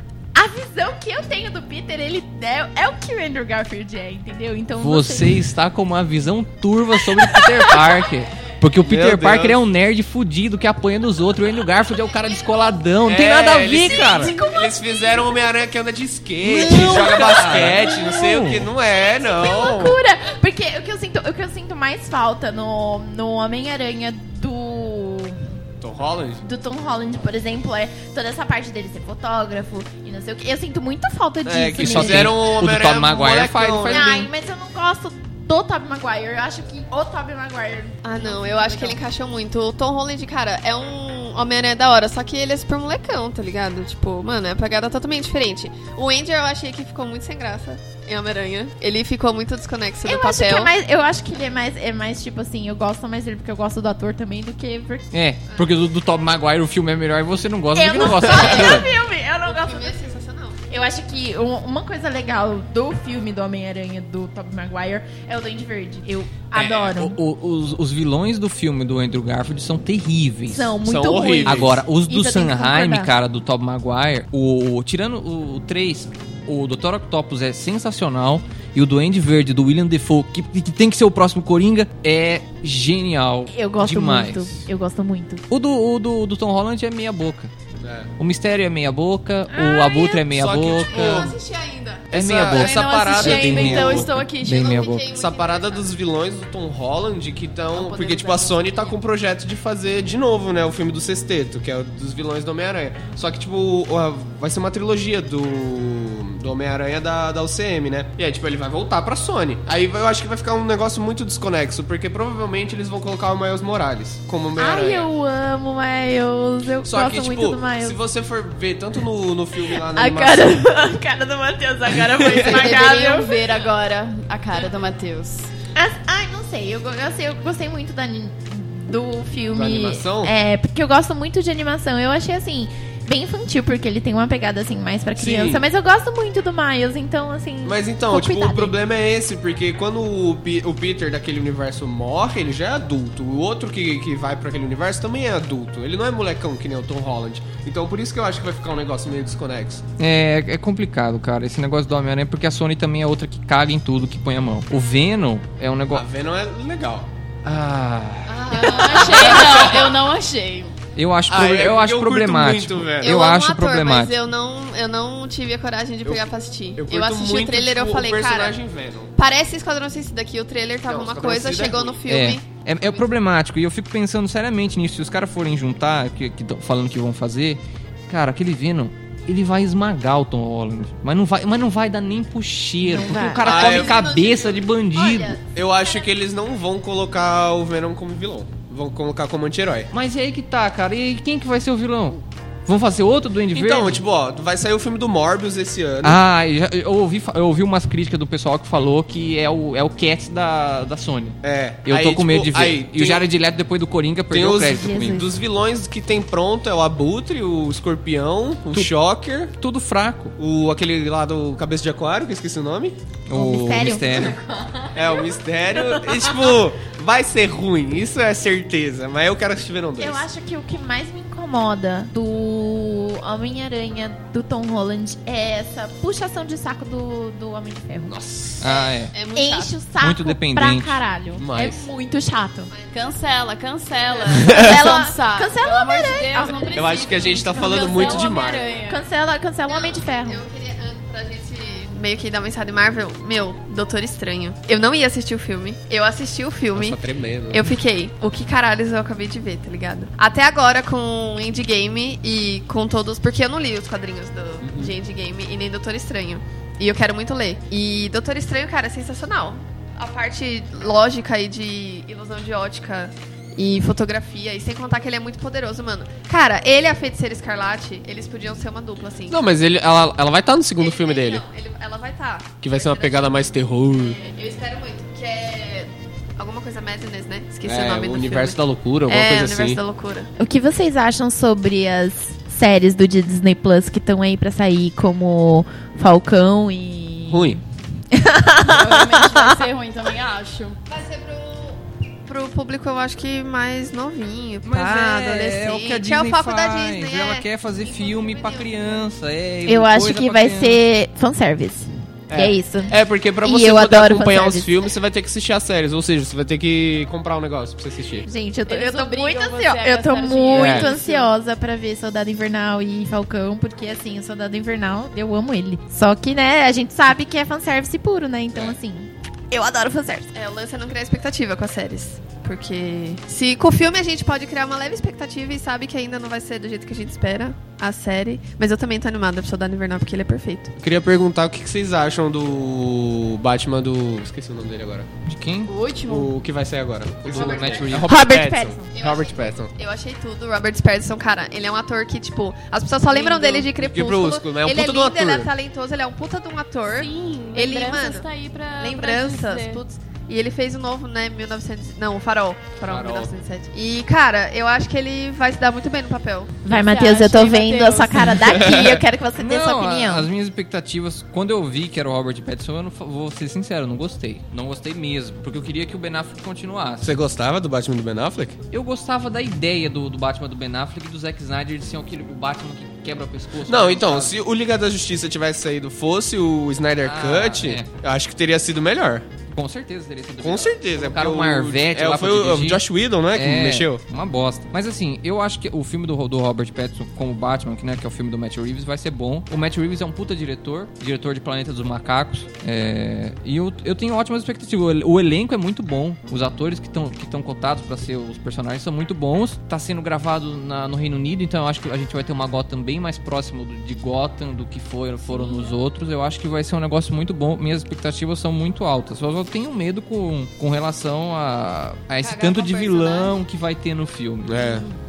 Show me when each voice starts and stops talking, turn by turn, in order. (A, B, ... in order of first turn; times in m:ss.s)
0:00.4-0:05.4 A
0:04.8-0:14.4 B
0:07.2-0:08.0 A
0:08.8-0:09.6 C
0:13.0-0:20.0 C
0:14.0-0:14.9 A
0:16.4-0:18.7 B
0:19.2-0:25.4 A
0:25.8-0:26.4 C
0:26.4-0:32.4 A
0:31.4-0:34.1 C
0:31.8-0:34.3 B
0:33.9-0:39.0 A
0:38.0-0:50.7 D
0:50.0-0:55.1 A
0:55.1-0:58.9 B
0:57.8-1:00.0 A
0:58.2-1:00.6 D
1:00.7-1:07.2 A
1:06.5-1:10.7 B
1:10.5-1:13.1 A
1:10.8-1:11.8 C
1:11.5-1:24.6 B
1:23.5-1:25.4 A
1:25.5-1:27.5 B
1:27.8-1:28.1 C
1:28.2-1:31.3 B
1:29.5-1:30.2 A
1:30.3-1:31.4 C
1:30.9-1:32.4 D
1:32.1-1:34.1 C
1:32.1-1:35.0 B
1:32.4-1:34.8 E
1:34.5-1:35.9 D
1:35.1-1:55.1 C
1:37.7-1:38.9 E
1:54.6-1:58.0 A
1:56.8-2:00.6 C
1:59.8-2:03.4 A
2:01.9-2:02.5 C
2:02.3-2:05.5 E
2:05.8-2:18.8 A
2:09.5-2:10.3 C
2:15.2-2:15.7 C
2:17.6-2:29.8 C
2:30.0-2:36.0 B
2:35.9-2:37.1 C
2:37.4-2:38.7 B
2:38.3-2:39.9 D
2:38.5-2:40.8 E
2:39.0-2:39.8 C
2:41.0-2:44.2 B
2:41.3-2:43.2 C
2:43.0-2:48.6 D
2:46.0-2:49.1 C
2:49.2-2:53.1 D
2:50.9-2:52.0 C
2:52.1-3:05.4 B
3:02.8-3:03.4 A
3:03.4-3:06.0 D
3:03.4-3:04.0 C
3:05.5-3:09.9 C
3:09.9-3:14.0 B
3:13.5-3:16.2 C
3:16.0-3:25.2 B
3:21.4-3:23.3 C
3:24.3-3:29.5 C
3:24.8-3:25.3 A
3:29.6-3:30.4 B
3:30.4-3:33.0 C
3:33.3-3:34.4 B
3:33.3-3:36.5 A
3:34.9-3:40.2 C
3:40.0-3:48.2 A
3:48.1-3:48.7 C
3:48.6-3:49.1 B
3:48.6-3:49.8 D
3:49.4-3:52.7 A
3:50.0-3:51.0 B
3:51.4-3:51.9 C
3:52.7-3:53.1 D
3:52.9-3:59.0 E
3:54.4-4:00.4 A
3:56.7-3:58.7 C
3:59.7-4:07.0 D
4:06.7-4:07.6 C
4:07.5-4:29.4 D
4:14.6-4:14.9 C
4:29.3-4:31.4 C
4:30.8-4:33.4 D
4:32.6-4:34.2 C
4:34.0-4:40.3 D
4:37.6-4:39.8 C
4:40.4-4:47.6 A
4:47.3-4:47.6 C
4:48.1-4:49.6 A
4:48.6-4:50.8 E
4:50.9-4:59.1 D
4:54.6-5:00.8 B
4:59.7-5:04.8 A
5:02.3-5:08.3 C
5:08.2-5:20.3 A
5:08.7-5:11.3 E
5:10.5-5:10.9 C
5:20.3-5:30.7 D
5:30.8-5:35.1 C
5:35.3-5:35.7 B
5:35.7-5:36.3 E
5:36.1-5:39.7 C
5:37.2-5:38.1 B
5:37.3-5:38.1 D
5:38.0-5:38.9 A
5:38.9-5:48.3 D
5:43.1-5:43.7 E
5:43.7-5:45.5 C
5:46.9-5:49.8 E
5:48.8-5:56.6 D
5:52.8-5:53.3 B
5:56.6-6:00.3 A
5:56.6-5:58.4 E
5:58.4-5:59.0 C
5:59.4-6:07.2 B
6:07.0-6:08.6 C
6:08.7-6:14.3 B
6:13.7-6:19.3 C
6:17.0-6:17.9 B
6:19.5-6:54.8 B
6:20.4-6:24.0 C
6:45.4-6:45.7 E
6:52.2-6:53.4 D
6:54.4-6:54.8 C